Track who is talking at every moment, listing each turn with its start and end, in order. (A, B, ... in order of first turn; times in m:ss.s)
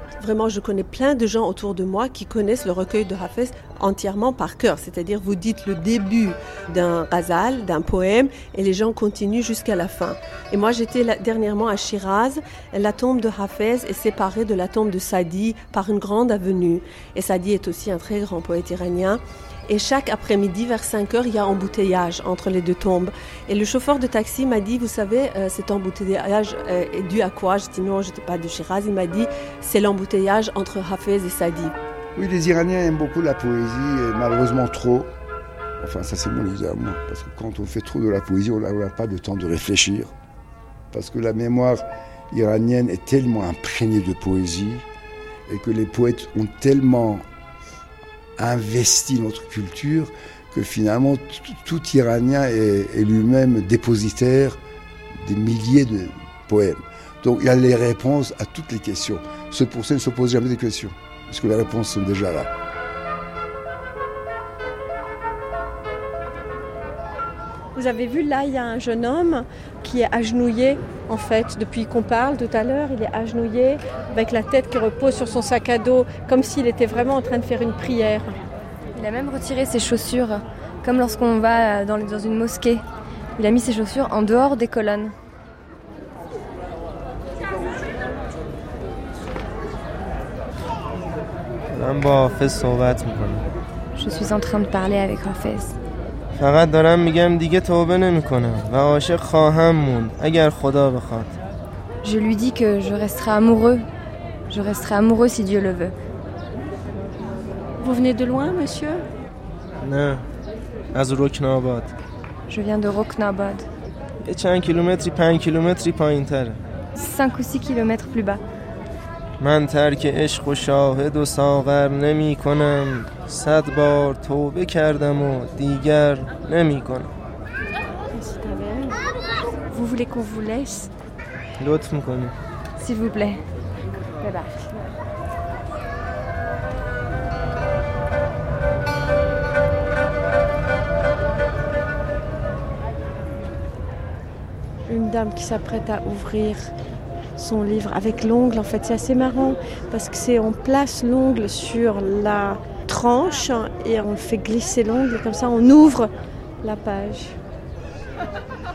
0:00.2-0:31.7 A
0:32.2-0:35.1 B
0:35.8-0:40.1 B
0:40.9-0:44.8 B
0:45.5-0:47.2 B
0:48.4-0:54.6 B
0:55.1-1:02.5 B
1:07.7-1:18.3 C
1:19.0-1:22.8 D
1:23.4-1:25.1 D
1:31.7-1:33.4 E
1:34.0-1:35.8 D
1:36.4-1:41.3 E
1:42.0-1:43.8 D
1:44.5-1:45.9 D
1:47.8-1:49.0 C
1:49.8-1:50.2 E
1:50.9-1:51.9 E
1:52.5-1:53.6 D
1:54.2-1:56.6 E
1:57.0-1:58.4 D
1:59.4-2:07.1 E
2:08.1-2:09.0 C
2:09.7-2:10.9 C
2:11.6-2:12.3 E
2:12.8-2:13.4 D
2:14.2-2:14.6 D
2:24.9-2:26.7 C
2:27.4-2:36.1 C
2:36.6-2:37.4 C